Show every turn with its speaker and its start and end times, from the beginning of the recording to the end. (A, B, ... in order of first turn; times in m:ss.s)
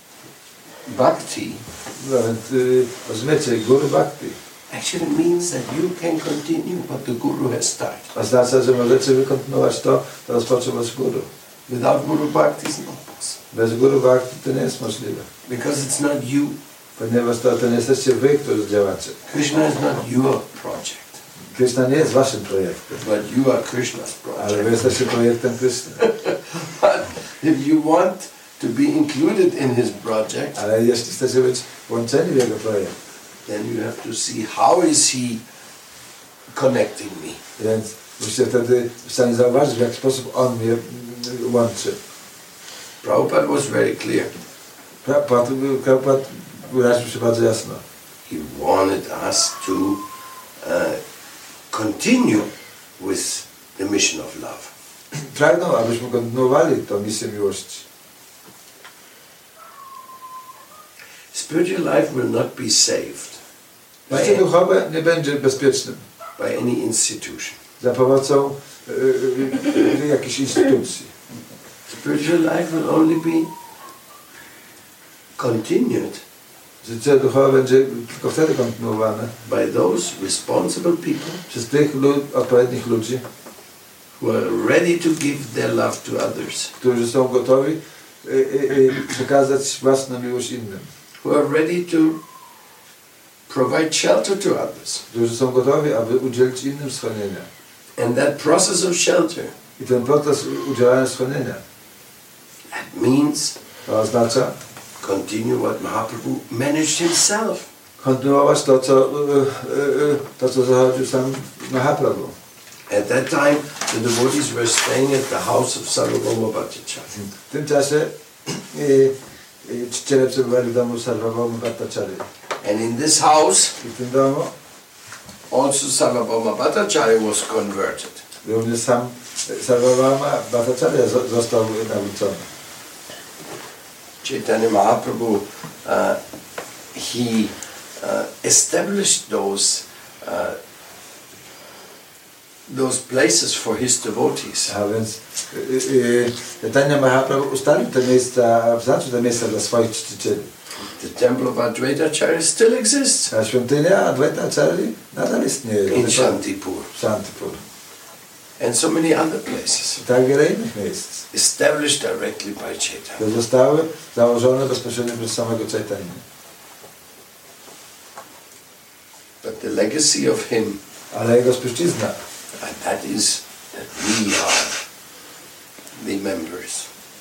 0:00.9-0:01.6 A
0:02.0-0:04.4 B
0:04.7-0:08.1 A
0:08.1-0:11.3 B
0:11.7-0:13.4 A
0:13.5-0:15.2 B
0:15.5-0:16.6 A
0:17.0-0:19.2 B
0:19.3-0:21.2 A
0:21.6-0:23.0 B
0:23.0-0:24.9 A
0:24.4-0:26.0 B
0:26.0-0:30.6 A
0:30.6-0:33.0 B
0:33.4-0:35.4 A
0:36.5-0:37.4 A
0:37.6-0:42.0 B
0:43.0-0:44.3 A
0:45.0-0:47.8 B
0:48.2-0:50.0 A
0:50.6-0:51.0 A
0:51.7-0:54.7 A
0:55.1-0:57.9 B
1:01.3-1:03.4 A
1:04.1-1:06.0 B
1:04.1-1:04.4 A
1:06.4-1:07.6 A
1:07.8-1:11.1 B
1:11.9-1:13.5 A
1:15.4-1:16.2 A
1:16.8-1:19.3 B
1:19.4-1:21.4 A
1:21.5-1:23.2 B
1:24.2-1:26.7 A
1:26.8-1:30.9 B
1:31.2-1:32.2 A
1:33.5-1:35.0 A
1:35.1-1:37.5 B
1:38.0-1:39.5 A
1:39.8-1:41.6 B
1:42.7-1:43.6 A
1:43.9-1:44.6 B
1:45.0-1:47.7 A
1:48.0-1:52.3 B
1:52.9-1:57.1 A
1:57.1-1:59.1 B
1:59.6-2:02.2 B
2:02.6-2:03.8 A
2:03.8-2:04.5 B
2:05.5-2:08.2 A
2:08.4-2:12.4 B
2:14.2-2:16.2 A
2:16.9-2:20.6 A
2:22.7-2:24.8 A
2:24.7-2:30.5 B
2:30.8-2:33.3 A
2:33.3-2:36.4 B
2:35.9-2:36.9 A
2:36.9-2:37.6 B
2:38.6-2:40.0 A
2:40.0-2:41.2 B
2:41.3-2:43.2 A
2:43.2-2:46.2 B
2:49.4-2:50.8 A
2:51.1-2:52.2 B
2:52.6-2:54.8 A
2:56.0-2:56.9 A